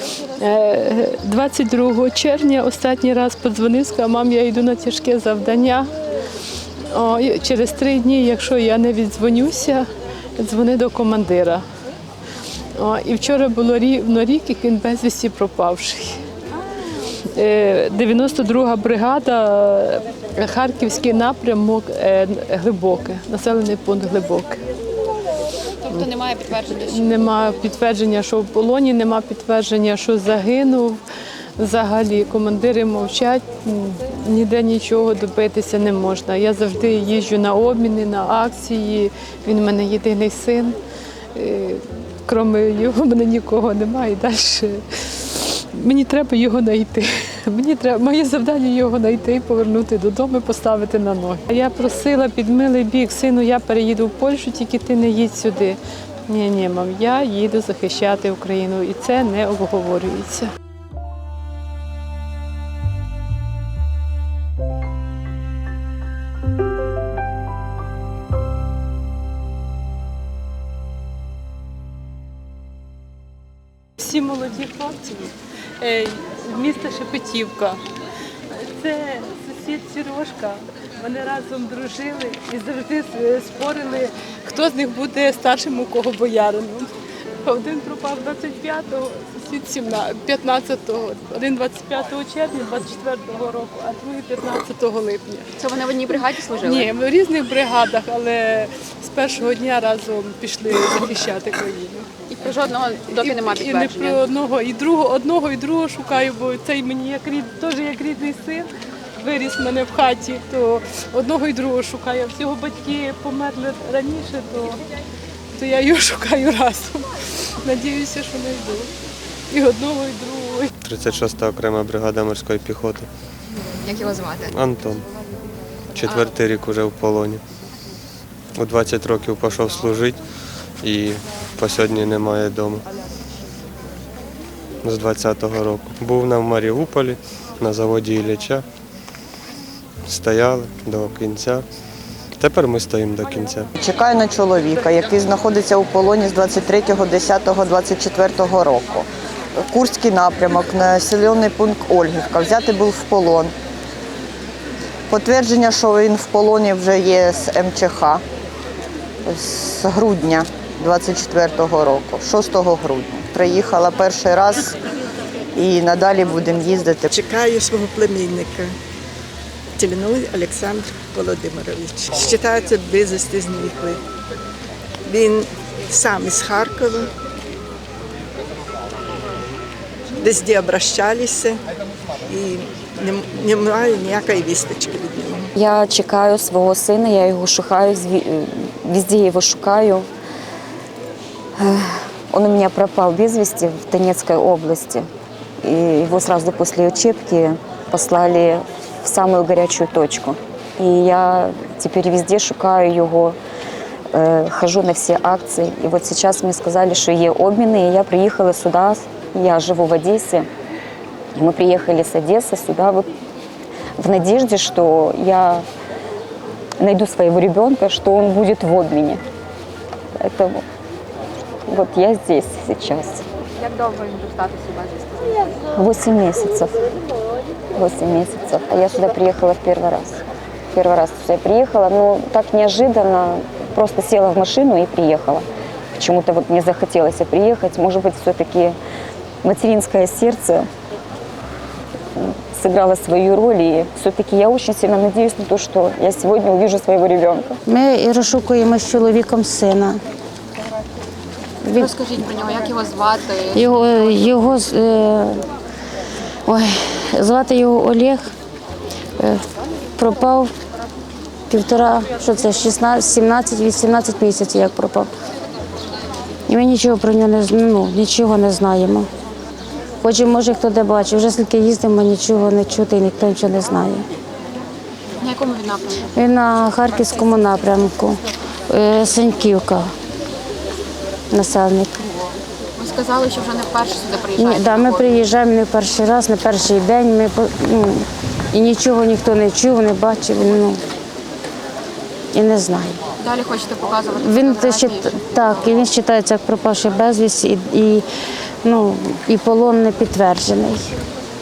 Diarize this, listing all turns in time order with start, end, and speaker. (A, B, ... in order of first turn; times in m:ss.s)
0:00.4-0:05.9 A
0:06.9-0:09.8 A
0:10.4-0:11.6 A
0:12.8-0:16.2 A
0:17.3-0:24.6 A
0:25.9-0:27.1 B
0:25.9-0:31.0 A
0:31.6-0:40.8 A
0:41.3-0:55.8 A
0:56.3-1:00.5 A
1:14.0-1:17.8 A
1:18.6-1:26.9 A
1:27.4-1:35.4 A
1:35.6-1:36.8 B
1:36.1-1:42.1 A
1:42.3-1:44.2 B
1:43.1-1:48.7 A
1:49.2-1:54.8 A
1:55.5-1:57.0 A
1:57.6-1:58.9 A
1:59.5-2:00.7 A
2:00.8-2:03.0 C
2:03.8-2:04.5 B
2:04.5-2:05.0 C
2:05.9-2:07.4 C
2:08.5-2:10.2 C
2:10.8-2:12.8 C
2:14.8-2:18.6 C
2:20.1-2:21.6 C
2:22.4-2:23.7 C
2:23.8-2:29.1 D
2:29.7-2:33.5 D
2:35.1-2:38.2 D
2:39.2-2:44.8 D
2:45.5-2:47.1 D
2:47.1-2:48.7 E
2:49.8-2:54.0 E
2:55.1-2:57.1 E
3:00.2-3:01.5 E
3:02.3-3:05.4 E
3:05.5-3:10.1 F
3:11.6-3:15.1 F
3:15.6-3:23.4 F
3:24.1-3:30.5 F
3:31.3-3:33.1 F
3:34.0-3:35.6 F
3:36.8-3:39.2 F
3:40.2-3:40.6 F
3:41.7-3:43.2 F
3:43.6-3:45.5 B
3:45.7-3:46.8 F
3:47.7-3:50.2 F
3:50.7-3:58.8 F
3:59.4-4:00.7 F
4:02.2-4:07.6 F
4:07.6-4:10.0 G
4:11.6-4:11.9 G
4:11.8-4:13.6 B
4:13.5-4:15.4 G
4:16.4-4:18.3 G
4:20.0-4:20.5 G
4:21.5-4:25.1 G
4:26.5-4:29.1 G
4:30.0-4:34.0 G
4:35.2-4:36.1 B
4:36.1-4:38.2 G
4:38.7-4:39.8 G
4:41.3-4:42.0 G
4:42.8-4:45.1 B
4:44.4-4:50.8 G
4:52.3-4:53.0 G
4:53.2-4:55.8 B
4:54.1-4:58.0 G
4:58.6-5:00.8 G